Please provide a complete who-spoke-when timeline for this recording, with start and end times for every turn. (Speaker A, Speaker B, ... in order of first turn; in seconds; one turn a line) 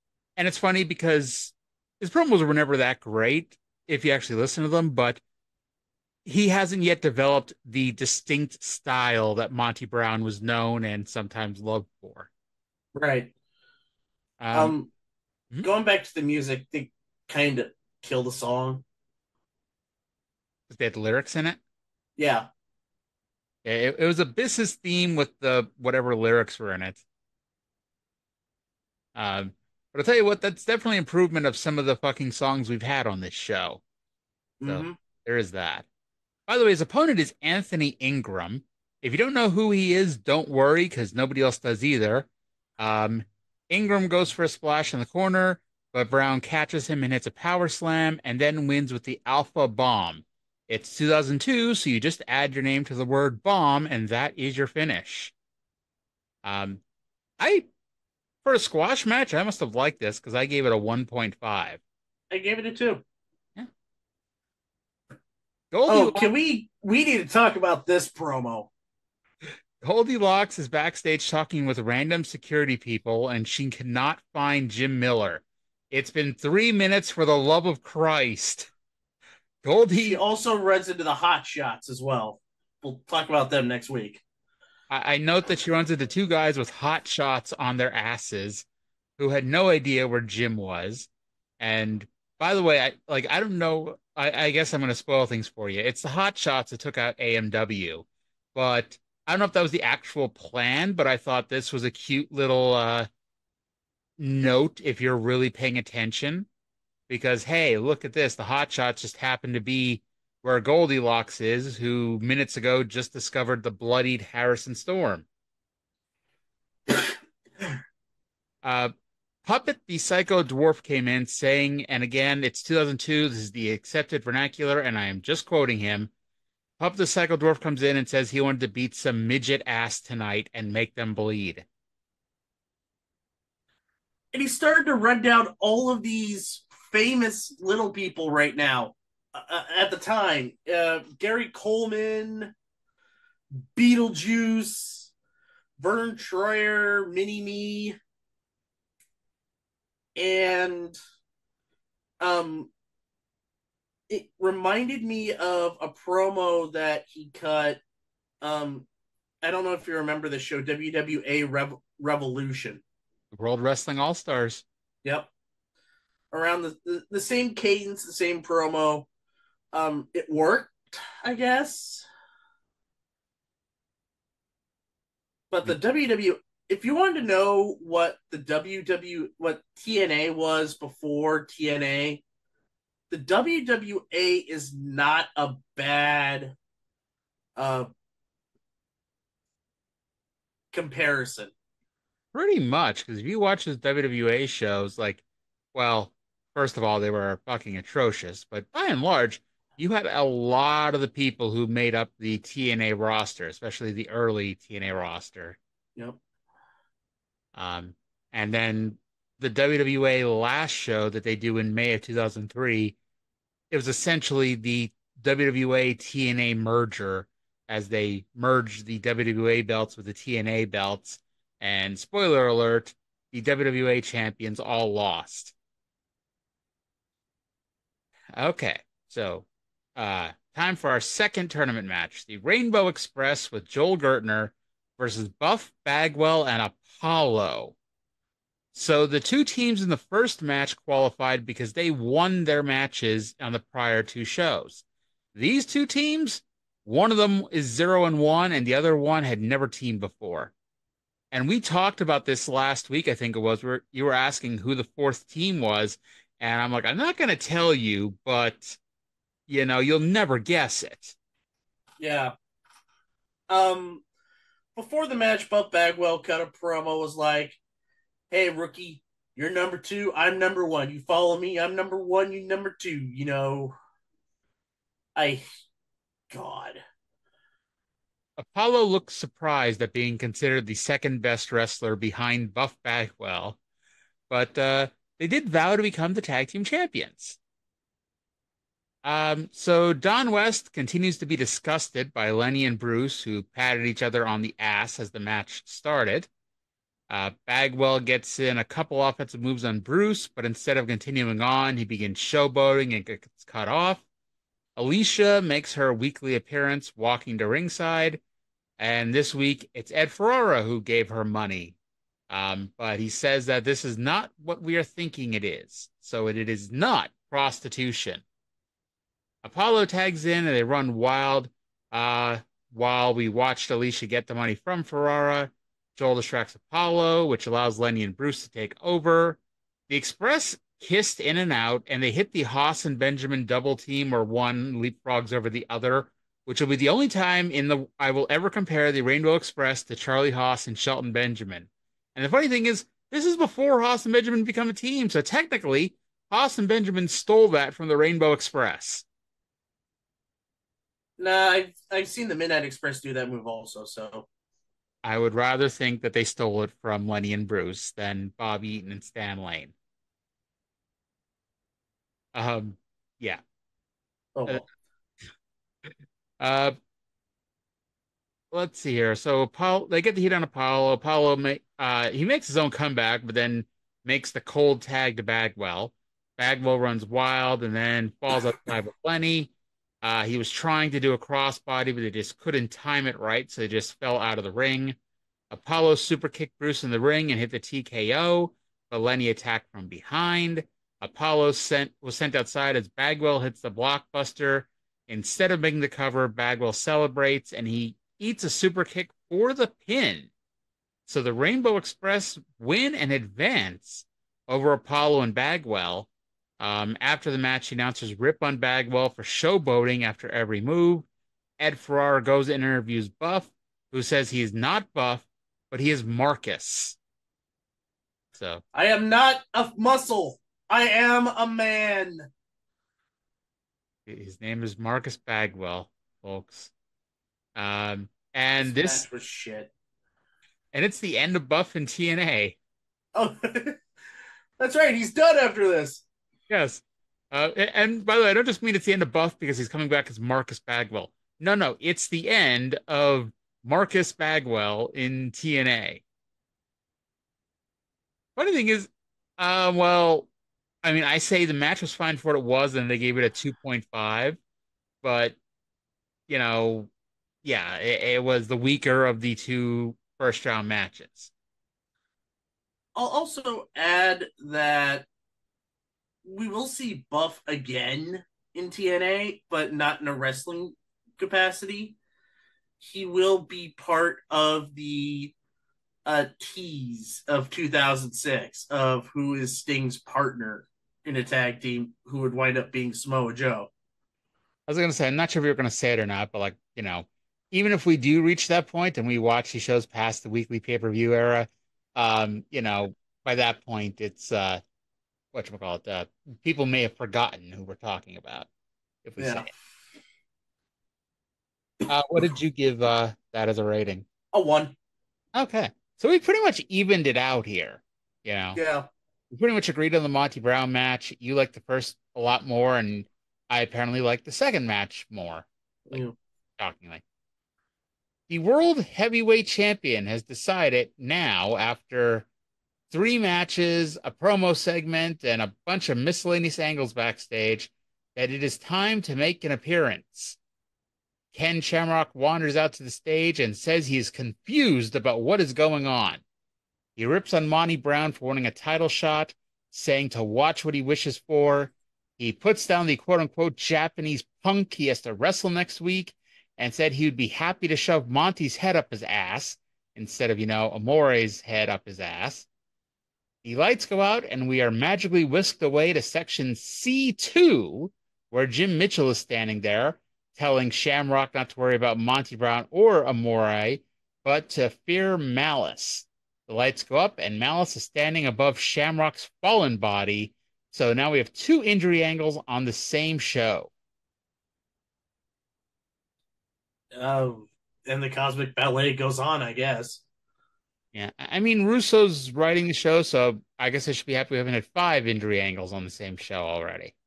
Speaker A: 0.4-5.2
Speaker A: 6.2-12.3
Speaker B: 12.9-13.3
Speaker A: 14.4-14.7
Speaker B: 14.5-14.9
Speaker B: 15.6-18.8
Speaker A: 20.7-21.6
Speaker B: 22.2-22.5
Speaker A: 23.6-27.0
Speaker A: 29.1-33.8
Speaker B: 34.6-35.0
Speaker A: 34.6-35.9
Speaker A: 36.5-42.3
Speaker A: 42.8-55.3
Speaker A: 56.4-56.8
Speaker A: 57.4-57.7
Speaker A: 58.4-61.8
Speaker B: 62.3-63.0
Speaker A: 65.7-66.3
Speaker B: 65.9-68.7
Speaker A: 69.8-78.7
Speaker A: 79.6-80.2
Speaker B: 80.0-84.2
Speaker A: 84.9-88.6
Speaker A: 89.2-91.1
Speaker A: 91.6-103.1
Speaker A: 104.2-106.5
Speaker A: 107.1-115.2
Speaker A: 118.6-118.9
Speaker A: 119.4-126.1
Speaker A: 126.8-131.6
Speaker B: 134.3-142.5
Speaker B: 143.6-145.1
Speaker B: 145.8-147.9
Speaker B: 150.2-150.9
Speaker B: 152.2-152.7
Speaker B: 154.1-157.8
Speaker B: 158.4-158.9
Speaker B: 159.4-162.8
Speaker A: 163.3-164.6
Speaker B: 165.0-165.3
Speaker B: 166.3-169.1
Speaker B: 169.7-172.0
Speaker B: 175.5-182.2
Speaker B: 183.1-186.6
Speaker B: 187.6-187.9
Speaker B: 190.7-191.5
Speaker A: 192.3-195.2
Speaker A: 195.7-205.6
Speaker A: 207.5-212.9
Speaker A: 213.7-225.5
Speaker A: 228.3-229.4
Speaker A: 229.9-237.7
Speaker A: 238.7-244.8
Speaker A: 245.3-250.5
Speaker A: 251.3-258.8
Speaker A: 259.5-261.1
Speaker B: 262.0-262.3
Speaker B: 263.5-264.0
Speaker B: 264.7-267.6
Speaker B: 268.3-273.7
Speaker B: 275.1-275.4
Speaker B: 276.3-276.8
Speaker A: 278.4-283.6
Speaker A: 284.3-287.4
Speaker A: 289.0-296.3
Speaker A: 297.1-304.0
Speaker A: 304.8-308.2
Speaker A: 308.8-311.8
Speaker A: 312.3-318.2
Speaker A: 319.4-349.0
Speaker B: 351.2-354.3
Speaker A: 355.0-359.7
Speaker A: 362.3-363.4
Speaker B: 364.4-364.6
Speaker A: 366.4-366.8
Speaker A: 368.5-379.5
Speaker A: 380.0-384.9
Speaker A: 385.5-400.3
Speaker A: 401.1-406.1
Speaker A: 406.6-411.1
Speaker A: 411.6-417.0
Speaker A: 418.3-418.6
Speaker B: 418.7-422.3
Speaker A: 424.1-426.7
Speaker A: 427.5-429.0
Speaker B: 428.6-429.7
Speaker A: 430.7-432.6
Speaker B: 433.1-433.8
Speaker B: 434.6-436.0
Speaker A: 436.5-446.0
Speaker A: 448.4-450.3
Speaker A: 450.8-454.4
Speaker A: 455.0-455.4
Speaker A: 456.3-456.9
Speaker A: 457.4-461.3
Speaker B: 462.9-465.1
Speaker B: 466.2-471.9
Speaker B: 472.8-475.3
Speaker B: 476.1-483.7
Speaker A: 484.7-494.6
Speaker A: 495.3-498.5
Speaker A: 499.0-499.5
Speaker B: 499.2-499.5
Speaker A: 501.9-504.1
Speaker B: 504.3-504.7
Speaker A: 505.3-508.6
Speaker B: 508.5-508.9
Speaker A: 509.3-516.0
Speaker B: 515.9-516.1
Speaker A: 516.6-517.0
Speaker A: 518.3-522.3
Speaker A: 522.9-530.4
Speaker A: 531.3-536.2
Speaker A: 537.0-552.5
Speaker A: 553.4-573.7
Speaker B: 576.9-580.0
Speaker A: 580.9-586.9